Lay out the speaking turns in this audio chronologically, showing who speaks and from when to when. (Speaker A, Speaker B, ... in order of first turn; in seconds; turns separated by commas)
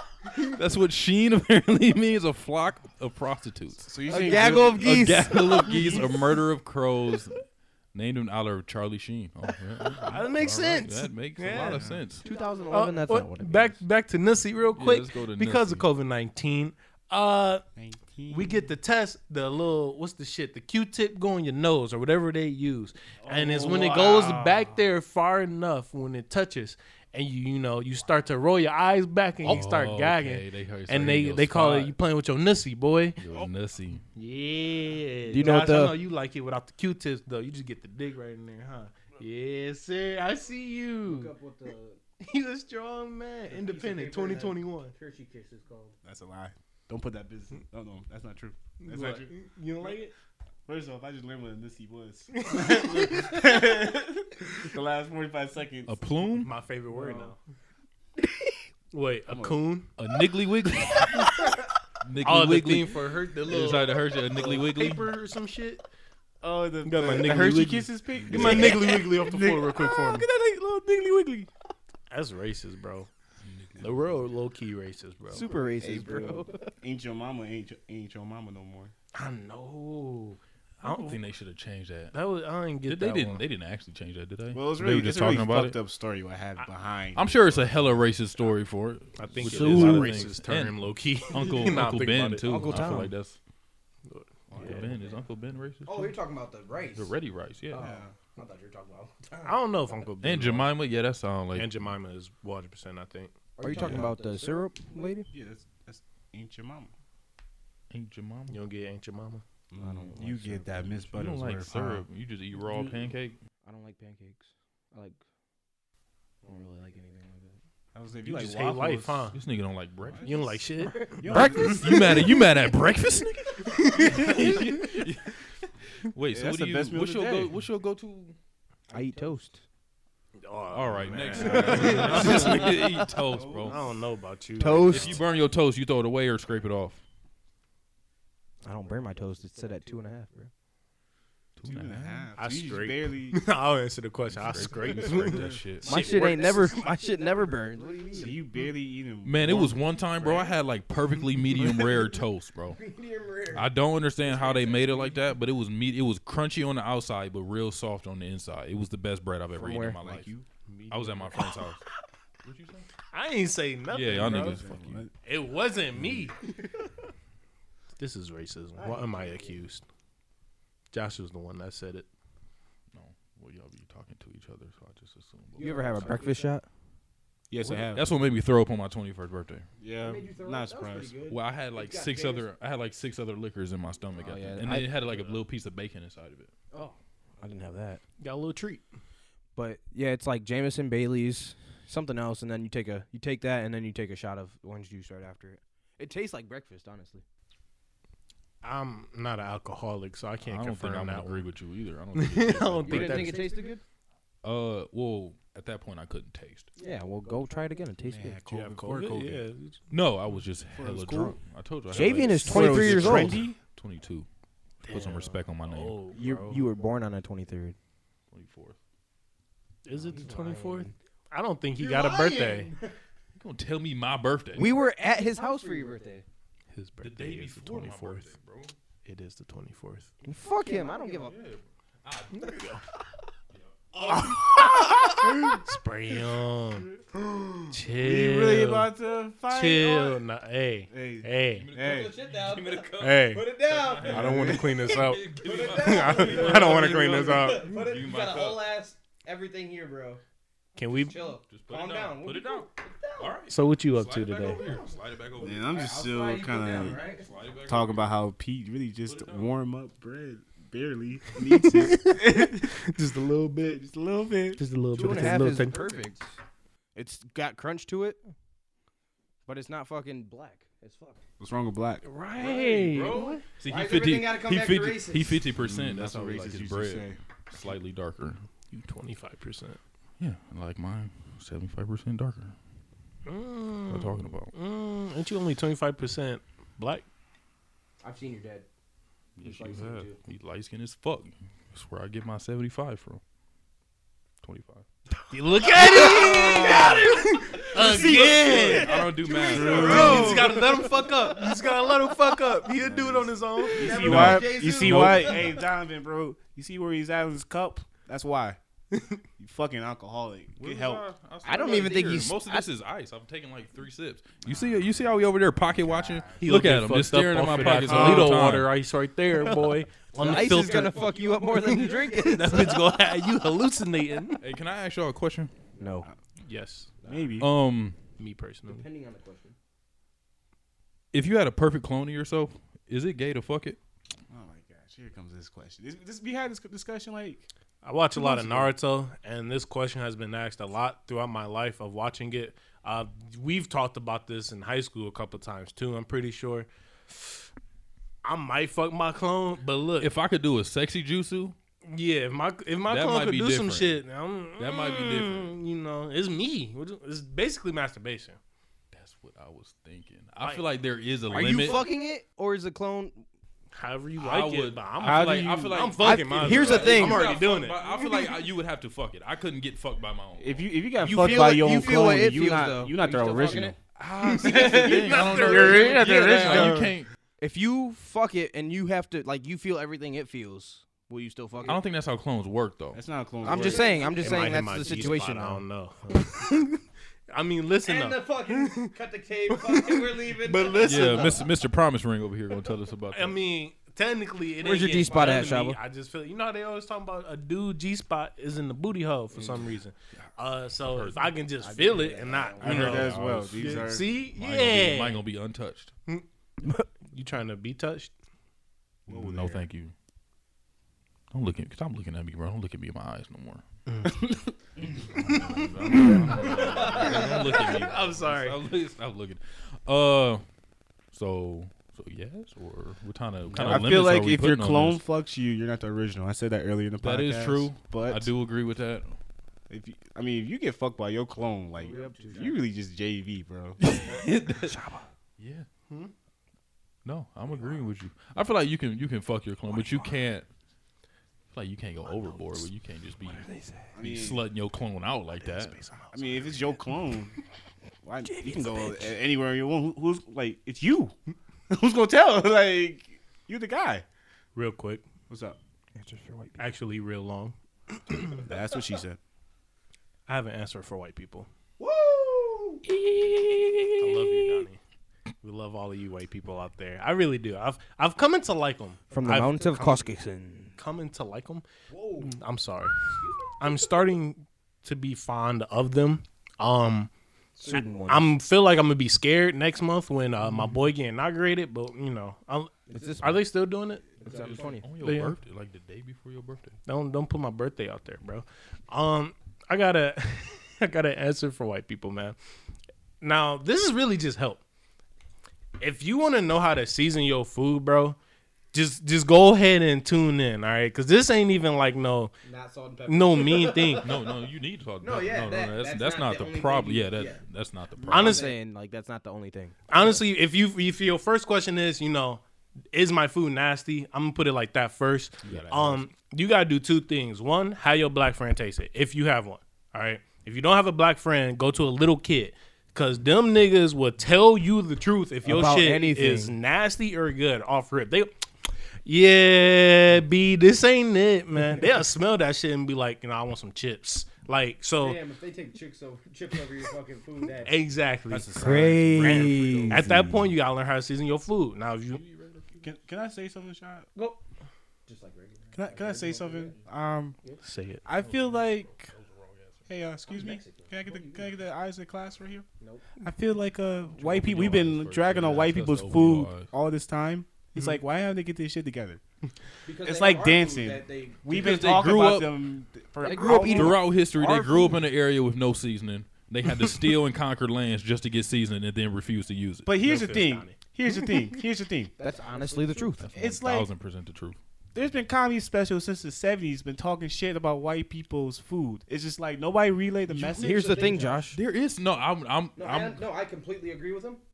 Speaker A: 0.4-12.2, Speaker B: 3.9-5.8, Speaker C: 4.1-5.4, Speaker D: 4.3-4.6, Speaker E: 10.0-11.9, Speaker B: 11.7-12.0, Speaker D: 12.2-12.9, Speaker C: 12.2-13.8, Speaker E: 12.7-17.6, Speaker A: 14.8-15.9, Speaker B: 17.8-18.6, Speaker E: 18.3-33.2, Speaker B: 23.2-24.8, Speaker A: 29.4-31.9, Speaker A: 33.2-34.0, Speaker E: 34.1-41.3, Speaker C: 35.3-36.0, Speaker D: 41.0-42.0, Speaker E: 42.2-44.9, Speaker D: 43.5-46.0, Speaker B: 46.0-49.3, Speaker E: 48.8-50.1, Speaker B: 50.7-56.0, Speaker E: 52.3-53.8, Speaker A: 55.9-56.5, Speaker E: 56.4-57.4, Speaker D: 57.0-57.3, Speaker E: 58.9-59.9, Speaker B: 59.3-59.6, Speaker A: 60.0-61.5, Speaker A: 62.0-65.1, Speaker E: 62.2-65.8, Speaker B: 66.4-71.5, Speaker E: 66.8-70.3, Speaker A: 68.3-68.6, Speaker E: 72.1-73.1, Speaker A: 73.4-74.2, Speaker E: 73.8-75.5, Speaker C: 75.3-76.6, Speaker D: 75.7-76.5, Speaker B: 75.8-78.9, Speaker E: 79.1-81.2, Speaker A: 80.8-82.2, Speaker E: 82.1-83.5, Speaker A: 82.9-85.8, Speaker B: 84.5-88.0, Speaker A: 87.2-93.4, Speaker E: 89.2-93.0, Speaker C: 89.4-90.3, Speaker C: 92.4-93.1, Speaker E: 94.1-94.9, Speaker D: 94.5-95.2, Speaker A: 94.5-96.1, Speaker D: 95.9-97.1, Speaker A: 97.0-97.8, Speaker D: 97.7-99.9, Speaker B: 97.8-98.1, Speaker E: 99.4-100.7, Speaker A: 100.2-101.9, Speaker E: 101.5-103.3, Speaker D: 103.6-105.2, Speaker C: 103.6-105.3, Speaker B: 105.3-106.9, Speaker A: 107.9-108.6, Speaker E: 108.5-109.4, Speaker B: 109.7-112.1, Speaker C: 109.8-110.9, Speaker A: 111.1-113.4, Speaker C: 113.7-115.2, Speaker C: 116.5-117.5, Speaker D: 116.5-117.0, Speaker B: 117.9-119.4, Speaker E: 118.2-119.4, Speaker A: 119.3-120.6, Speaker B: 120.0-120.3, Speaker E: 120.2-122.0, Speaker B: 121.2-122.0, Speaker A: 121.2-125.4, Speaker E: 123.7-124.4, Speaker A: 126.0-128.4, Speaker B: 126.3-127.5, Speaker D: 128.9-129.5, Speaker C: 128.9-129.6, Speaker E: 130.4-132.8, Speaker A: 130.7-133.8, Speaker B: 131.1-132.5, Speaker C: 131.8-132.3, Speaker B: 133.3-133.8, Speaker E: 133.6-135.2, Speaker C: 134.6-135.2, Speaker A: 134.6-137.0, Speaker C: 138.6-140.5, Speaker D: 138.8-140.1, Speaker A: 141.6-142.3, Speaker B: 141.6-143.4, Speaker E: 142.4-146.4, Speaker A: 144.3-146.2, Speaker B: 145.2-145.6, Speaker D: 145.8-148.4, Speaker C: 145.8-148.4, Speaker B: 148.1-149.8, Speaker A: 149.2-152.8, Speaker D: 152.8-155.3, Speaker A: 153.5-160.3, Speaker C: 159.6-160.0, Speaker B: 159.7-160.5, Speaker E: 160.7-161.7, Speaker A: 160.9-161.8, Speaker A: 162.4-162.9, Speaker E: 163.1-166.4, Speaker A: 163.9-165.0, Speaker B: 164.3-165.1, Speaker E: 168.0-169.8, Speaker D: 168.8-169.6, Speaker E: 170.9-172.1, Speaker A: 172.9-176.0, Speaker D: 175.6-176.6, Speaker C: 175.6-176.7, Speaker B: 177.5-178.1, Speaker A: 177.7-179.7, Speaker B: 179.8-181.2, Speaker D: 180.0-182.5, Speaker A: 181.3-186.5, Speaker C: 184.2-184.9, Speaker D: 186.7-187.0, Speaker C: 187.4-188.0, Speaker E: 188.2-188.9, Speaker C: 189.6-197.2, Speaker E: 198.6-201.5, Speaker A: 200.4-203.3, Speaker E: 202.1-203.4, Speaker D: 202.9-203.8, Speaker C: 202.9-203.8, Speaker A: 204.4-206.7, Speaker D: 206.8-207.9, Speaker C: 206.8-208.4, Speaker B: 208.1-209.4, Speaker E: 208.5-209.8, Speaker A: 209.9-214.3, Speaker B: 210.7-211.4, Speaker C: 211.9-213.4, Speaker B: 212.2-213.6, Speaker E: 214.8-216.6, Speaker A: 214.9-216.1, Speaker C: 216.1-217.8, Speaker A: 218.3-218.8, Speaker E: 219.8-222.7, Speaker C: 220.1-220.9, Speaker D: 220.2-220.6, Speaker D: 221.8-222.9, Speaker A: 223.4-224.7, Speaker C: 224.6-226.2, Speaker D: 224.6-226.2, Speaker E: 226.7-228.3, Speaker A: 227.0-228.8, Speaker E: 229.1-230.1, Speaker C: 230.2-231.3, Speaker D: 230.3-231.3, Speaker A: 231.2-232.6, Speaker E: 232.3-232.8, Speaker D: 233.9-235.0, Speaker E: 234.1-236.9, Speaker B: 237.0-240.2, Speaker E: 237.7-238.9, Speaker E: 239.5-241.7, Speaker B: 240.9-242.1, Speaker A: 241.5-248.7, Speaker D: 241.8-244.6, Speaker E: 243.0-243.4, Speaker E: 244.0-247.7, Speaker D: 245.3-250.2, Speaker E: 250.8-251.3, Speaker D: 250.9-253.4, Speaker A: 251.5-255.9, Speaker E: 253.5-254.6, Speaker B: 255.4-257.0, Speaker D: 255.7-257.3, Speaker A: 256.7-258.1, Speaker B: 257.7-262.7, Speaker A: 259.1-259.5, Speaker E: 261.4-263.9, Speaker B: 263.7-264.6, Speaker E: 264.6-265.8, Speaker C: 264.9-266.3, Speaker D: 265.0-266.1, Speaker C: 266.9-268.2, Speaker C: 269.5-270.8, Speaker D: 270.7-271.2, Speaker B: 271.4-272.1, Speaker E: 272.0-273.5, Speaker A: 272.4-278.4, Speaker D: 273.2-275.5, Speaker B: 275.6-277.2, Speaker E: 278.7-279.8, Speaker A: 280.2-282.6, Speaker E: 283.3-287.1, Speaker A: 283.9-284.5, Speaker D: 288.0-288.7, Speaker A: 289.4-293.2, Speaker D: 289.4-290.2, Speaker A: 294.4-294.9, Speaker E: 295.3-304.1, Speaker A: 295.8-297.2, Speaker D: 296.1-297.1, Speaker A: 297.7-300.7, Speaker D: 297.8-298.2, Speaker B: 299.3-300.5, Speaker D: 299.4-300.5, Speaker B: 302.8-308.6, Speaker D: 303.8-305.4, Speaker A: 303.9-305.5, Speaker E: 308.9-309.2, Speaker B: 309.4-311.1, Speaker A: 310.6-318.7, Speaker C: 311.4-312.7, Speaker B: 314.4-315.0, Speaker B: 315.6-316.6, Speaker E: 316.4-321.0, Speaker D: 320.1-322.9, Speaker C: 320.2-322.8, Speaker E: 321.6-324.4, Speaker A: 324.4-325.5, Speaker C: 325.8-326.1, Speaker E: 326.4-326.9, Speaker D: 327.0-327.3, Speaker B: 327.0-327.5, Speaker A: 327.4-328.0, Speaker E: 328.2-328.9, Speaker D: 328.7-329.6, Speaker A: 331.1-333.8, Speaker B: 334.3-337.5, Speaker E: 337.8-347.3, Speaker E: 348.2-350.1, Speaker A: 350.0-351.6, Speaker E: 351.8-358.4, Speaker A: 352.9-354.0, Speaker A: 354.6-355.6, Speaker A: 358.9-361.8, Speaker E: 360.4-360.7, Speaker C: 361.3-363.2, Speaker D: 361.4-362.1, Speaker E: 363.7-368.3, Speaker A: 364.2-370.7, Speaker B: 365.0-365.9, Speaker C: 366.0-367.3, Speaker B: 370.4-373.8, Speaker C: 371.0-373.7, Speaker D: 373.0-373.7, Speaker A: 374.0-377.1, Speaker E: 374.2-376.1, Speaker B: 374.5-376.9, Speaker C: 376.0-376.7, Speaker C: 377.4-381.8, Speaker A: 381.7-383.0, Speaker B: 382.9-384.0, Speaker C: 383.4-385.6, Speaker D: 383.4-385.0, Speaker E: 384.1-386.8, Speaker E: 387.3-388.9, Speaker D: 387.8-391.4, Speaker E: 389.5-391.4, Speaker A: 390.8-393.4, Speaker E: 393.1-405.2, Speaker C: 394.6-395.8, Speaker D: 394.7-395.6, Speaker A: 400.8-401.4, Speaker B: 401.7-402.1, Speaker D: 401.7-403.1, Speaker B: 402.6-404.1, Speaker A: 402.6-405.9, Speaker E: 407.1-408.1, Speaker B: 409.1-409.7, Speaker A: 409.1-409.9, Speaker A: 411.3-413.7, Speaker E: 413.9-414.1, Speaker B: 414.1-414.5, Speaker A: 415.2-420.4, Speaker D: 416.5-417.8, Speaker E: 417.0-418.6, Speaker A: 421.1-425.0, Speaker B: 423.5-428.3, Speaker A: 427.0-429.2, Speaker B: 429.7-433.8, Speaker D: 431.8-432.6, Speaker A: 433.9-434.8, Speaker C: 434.6-435.1, Speaker A: 435.4-435.7, Speaker A: 437.1-440.5, Speaker A: 441.5-445.8, Speaker B: 443.9-444.4, Speaker E: 445.4-446.6, Speaker B: 446.1-447.4, Speaker B: 448.1-451.1, Speaker C: 448.3-449.1, Speaker B: 451.7-454.1, Speaker E: 454.6-455.1, Speaker B: 455.3-455.6, Speaker C: 456.0-456.7, Speaker E: 456.6-458.5, Speaker B: 458.4-459.2, Speaker E: 460.3-461.5, Speaker D: 461.8-462.8, Speaker E: 462.9-464.8, Speaker E: 465.4-470.0, Speaker C: 469.1-470.8, Speaker D: 469.1-470.1, Speaker E: 470.8-471.6, Speaker D: 471.9-472.3, Speaker E: 472.2-472.9, Speaker D: 473.1-474.0, Speaker E: 473.6-477.1, Speaker D: 477.6-478.2, Speaker C: 477.6-478.3, Speaker E: 477.7-484.1, Speaker D: 482.9-483.3, Speaker C: 482.9-483.4, Speaker D: 484.1-484.9, Speaker C: 484.2-484.9, Speaker A: 484.3-486.8, Speaker E: 484.9-485.4, Speaker E: 486.9-492.4, Speaker E: 493.2-494.6, Speaker E: 495.8-498.2, Speaker E: 498.7-502.3, Speaker D: 502.4-504.2, Speaker E: 503.1-504.1, Speaker A: 504.0-508.4, Speaker D: 505.0-507.4, Speaker E: 508.1-508.5, Speaker D: 508.1-508.6, Speaker C: 508.1-509.8, Speaker E: 509.9-528.3, Speaker B: 515.5-516.0, Speaker C: 525.4-526.5, Speaker E: 529.1-535.2, Speaker D: 535.0-537.8, Speaker E: 537.6-542.2, Speaker B: 538.3-539.2, Speaker C: 538.6-540.2, Speaker D: 542.3-542.8, Speaker B: 542.8-544.1, Speaker D: 544.1-544.4, Speaker D: 545.1-546.8, Speaker B: 545.7-547.4, Speaker E: 547.6-548.0, Speaker B: 548.1-549.1, Speaker A: 548.1-549.8, Speaker B: 549.9-552.7, Speaker D: 550.3-551.5, Speaker D: 552.8-553.1, Speaker B: 553.2-559.2, Speaker A: 554.2-556.7, Speaker D: 559.9-561.5, Speaker B: 560.0-564.0, Speaker A: 561.5-562.5, Speaker C: 563.2-565.0, Speaker A: 563.4-569.9, Speaker D: 563.5-563.8, Speaker B: 569.9-572.1, Speaker E: 570.0-571.4, Speaker D: 572.2-573.3, Speaker C: 572.2-573.2, Speaker A: 573.2-574.6, Speaker B: 573.4-573.9, Speaker B: 574.9-581.0, Speaker A: 580.3-580.8, Speaker D: 580.6-581.5, Speaker C: 580.6-581.6, Speaker A: 581.5-583.2, Speaker D: 582.8-584.4